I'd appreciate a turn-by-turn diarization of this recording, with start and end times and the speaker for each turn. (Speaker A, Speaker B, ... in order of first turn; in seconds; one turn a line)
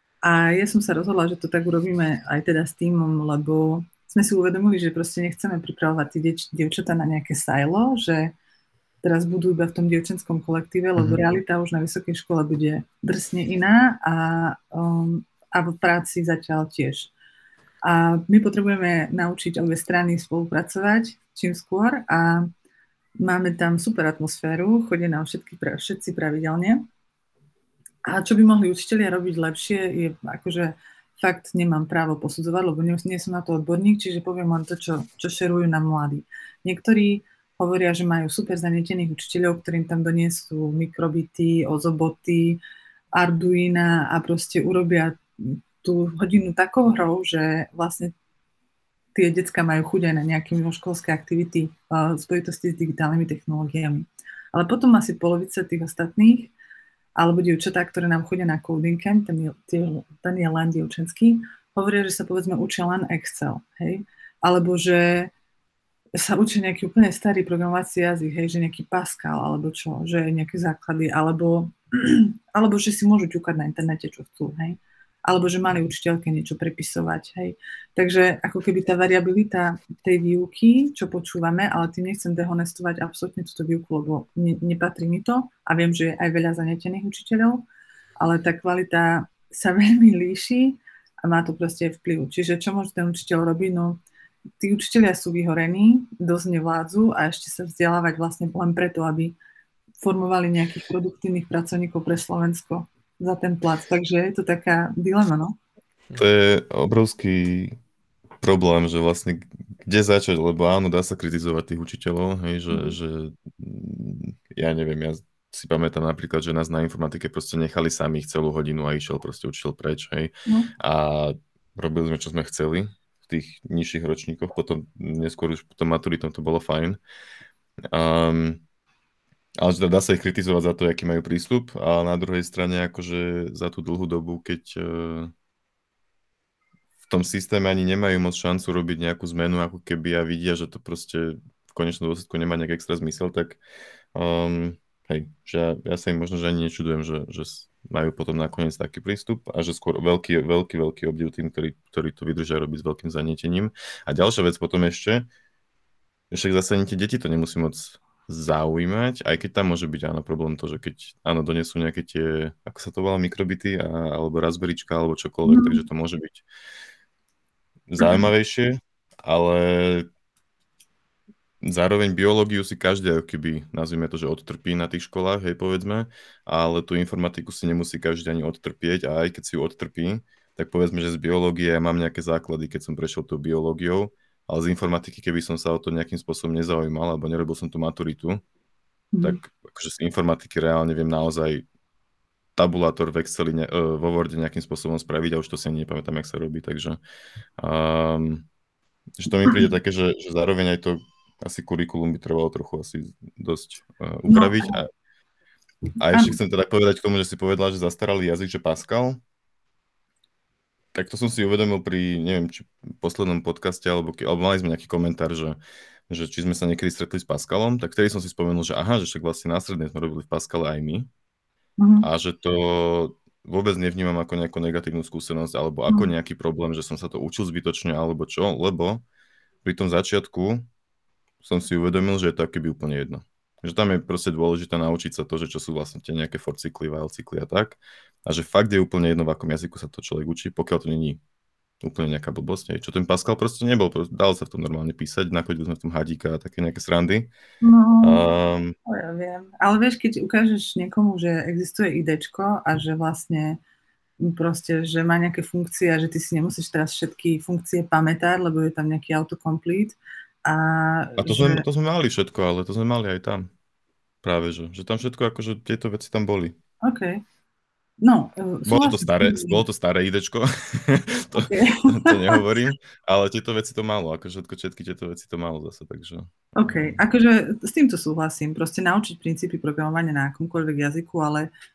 Speaker A: 0.2-8.3
Speaker A: 9.0-17.1
Speaker A: 17.8-22.5
Speaker A: 23.2-26.8
Speaker A: 28.1-42.6
Speaker A: 43.1-48.1
Speaker A: 49.1-56.5
Speaker A: 57.1-65.3
Speaker A: 66.1-87.6
Speaker A: 88.2-94.0
Speaker A: 94.6-99.3
Speaker A: 100.0-105.6
Speaker B: 106.2-107.8
Speaker B: 108.4-127.0
Speaker A: 112.7-113.0
Speaker B: 127.9-128.6
Speaker B: 129.6-135.3
Speaker B: 137.1-143.6
Speaker B: 144.1-155.3
Speaker B: 156.3-166.4
Speaker A: 165.4-165.8
Speaker B: 167.9-170.1
Speaker A: 168.0-168.2
Speaker B: 171.6-188.4
Speaker A: 189.1-189.4
Speaker B: 189.2-191.7
Speaker B: 192.6-197.0
Speaker B: 197.6-198.4
Speaker B: 199.2-204.9
Speaker A: 204.3-204.8
Speaker B: 206.0-209.2
Speaker A: 206.1-206.4
Speaker B: 210.9-221.1
Speaker A: 221.8-222.1
Speaker B: 222.0-229.0
Speaker B: 229.6-230.6
Speaker B: 231.4-241.2
Speaker B: 241.8-247.3
Speaker A: 247.6-248.2
Speaker B: 248.0-248.7
Speaker A: 248.9-253.6
Speaker A: 254.2-261.6
Speaker B: 261.2-263.5
Speaker B: 264.2-266.6
Speaker A: 266.8-267.2
Speaker A: 268.0-269.6
Speaker B: 268.6-276.9
Speaker A: 271.4-272.4
Speaker A: 276.5-281.5